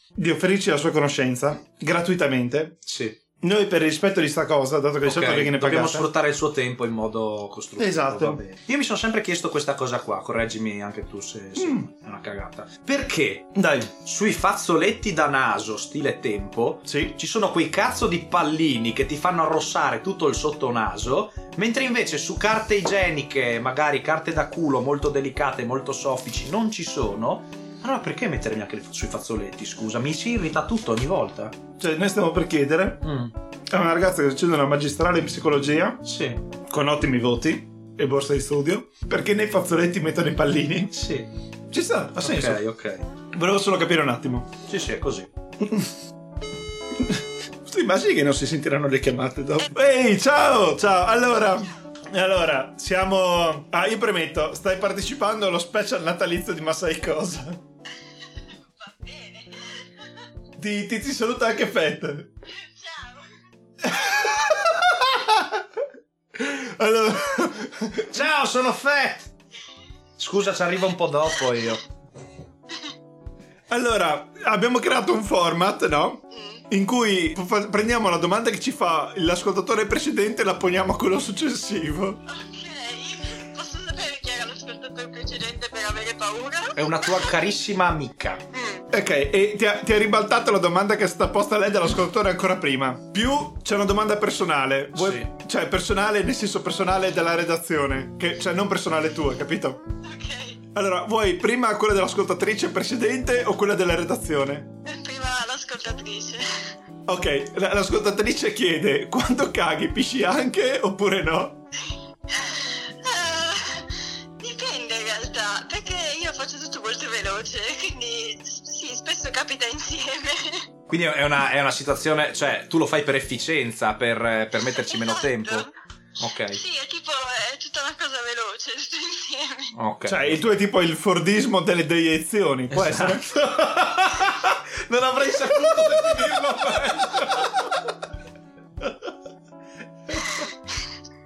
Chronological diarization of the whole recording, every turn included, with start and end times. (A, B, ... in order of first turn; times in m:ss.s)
0:00.2-0:02.8 A
0:02.9-0:03.2 B
0:03.4-0:06.1 A
0:05.0-0:31.6 B
0:07.8-0:08.4 A
0:11.6-0:11.9 A
0:13.6-0:13.9 A
0:16.9-0:17.1 A
0:31.8-0:33.0 A
0:33.0-0:33.3 B
0:33.7-0:36.0 A
0:36.0-0:36.4 B
0:36.7-0:41.0 A
0:40.9-0:41.3 B
0:41.7-0:42.6 A
0:42.2-0:43.0 B
0:43.3-0:44.5 A
0:44.7-0:45.3 B
0:45.6-0:45.9 A
0:46.9-0:57.6 A
0:58.5-1:00.1 C
1:00.6-1:02.3 A
1:02.5-1:03.3 C
1:03.8-1:05.6 A
1:06.4-1:08.2 A
1:08.1-1:09.3 B
1:10.2-1:11.8 B
1:13.7-1:22.2 A
1:16.3-1:16.6 C
1:22.3-1:27.4 C
1:26.8-1:28.4 B
1:28.5-1:28.9 C
1:28.9-1:39.8 A
1:34.9-1:35.3 B
1:40.0-1:40.6 C
1:40.7-1:44.7 A
1:44.9-1:46.4 C
1:47.1-1:51.6 A
1:52.3-2:00.6 C
2:00.9-2:06.6 B
2:04.8-2:05.7 C
2:06.5-2:09.7 C
2:09.8-2:10.5 B
2:10.1-2:14.3 A
2:12.7-2:17.5 B
2:15.4-2:17.7 A
2:20.1-2:20.4 A